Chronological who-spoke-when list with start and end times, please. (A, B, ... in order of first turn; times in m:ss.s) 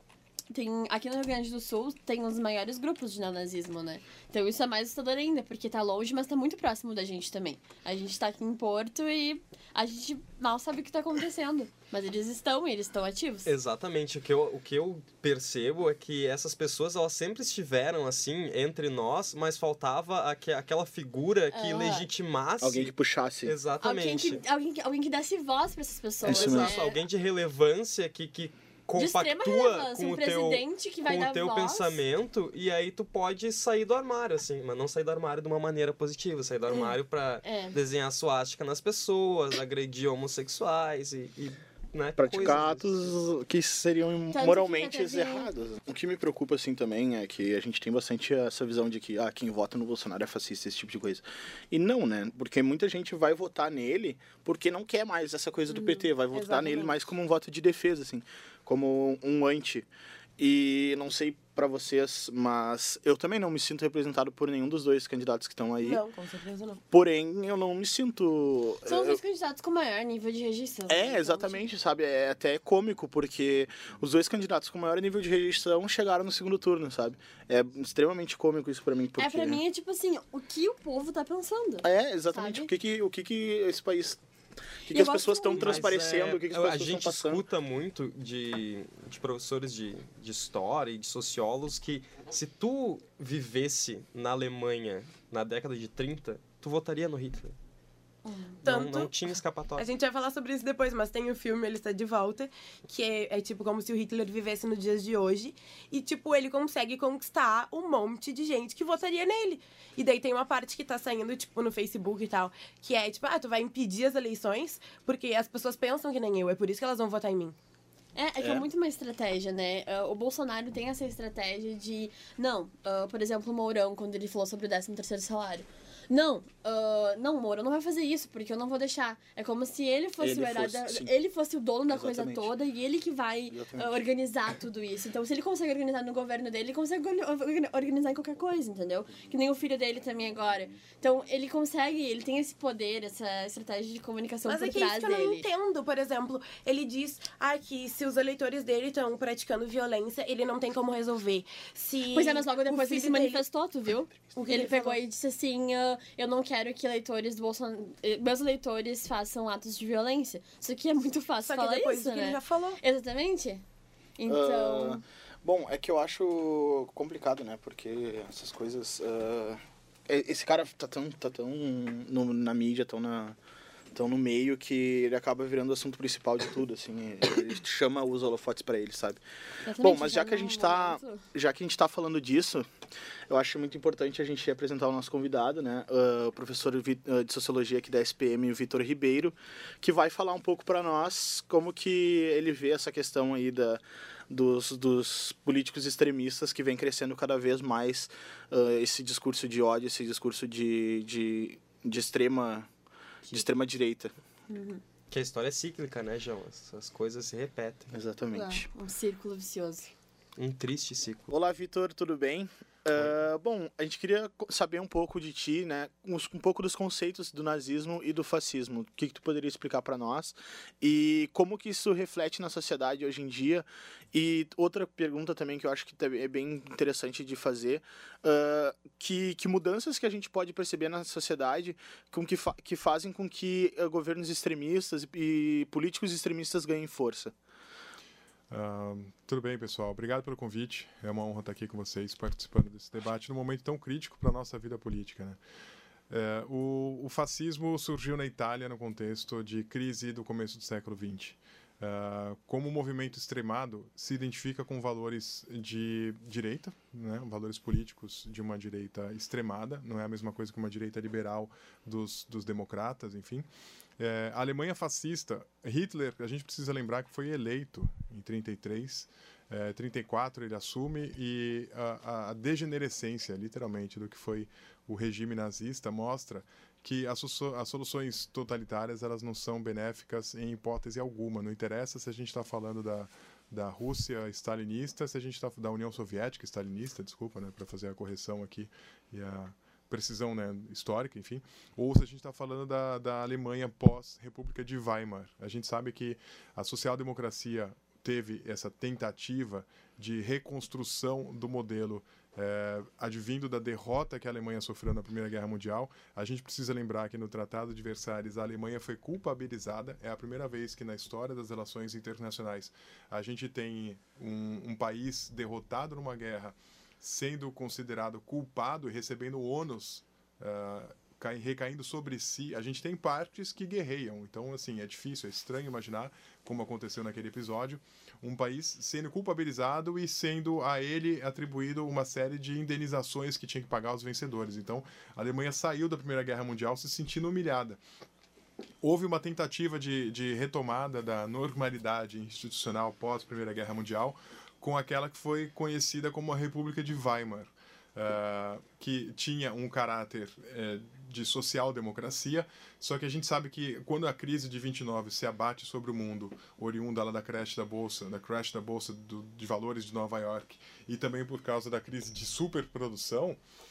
0:00.5-0:13.6 A
0:13.5-0:22.9 B
0:21.5-0:22.1 A
0:22.6-0:23.6 C
0:23.4-0:24.4 B
0:23.8-0:27.0 A
0:26.2-0:26.8 C
0:26.2-0:43.1 B
0:29.0-0:32.0 A
0:36.7-0:37.8 A
0:42.2-0:59.9 C
0:44.3-0:45.5 A
0:55.8-0:57.0 D
1:00.4-1:06.0 C
1:05.8-1:06.8 D
1:06.9-1:09.2 C
1:08.8-1:11.6 A
1:10.9-1:19.6 C
1:19.2-1:22.7 A
1:21.8-1:24.2 C
1:24.9-1:27.4 C
1:24.9-1:25.9 A
1:25.5-1:37.6 B
1:38.2-1:38.6 A
1:38.6-1:39.1 D
1:38.6-1:39.9 B
1:39.8-1:57.6 D
1:58.2-2:25.5 A
1:58.4-1:58.7 C
2:10.2-2:11.1 C
2:11.9-2:12.5 C
2:13.5-2:13.9 C
2:24.5-2:33.4 D
2:32.1-2:43.6 A
2:34.3-2:35.0 D
2:41.4-2:42.8 D
2:44.2-2:45.0 A
2:44.3-2:53.4 C
2:53.9-2:59.2 C
2:59.6-3:01.2 A
2:59.8-3:02.7 C
3:03.3-3:22.7 C
3:23.3-3:24.1 C
3:24.5-3:24.8 A
3:25.1-3:27.9 B
3:27.9-3:28.7 C
3:28.3-3:29.9 A
3:30.4-3:31.3 B
3:31.3-3:57.3 C
3:58.5-4:05.4 E
4:06.1-4:23.5 E
4:24.0-5:37.8 E
5:38.8-6:03.4 E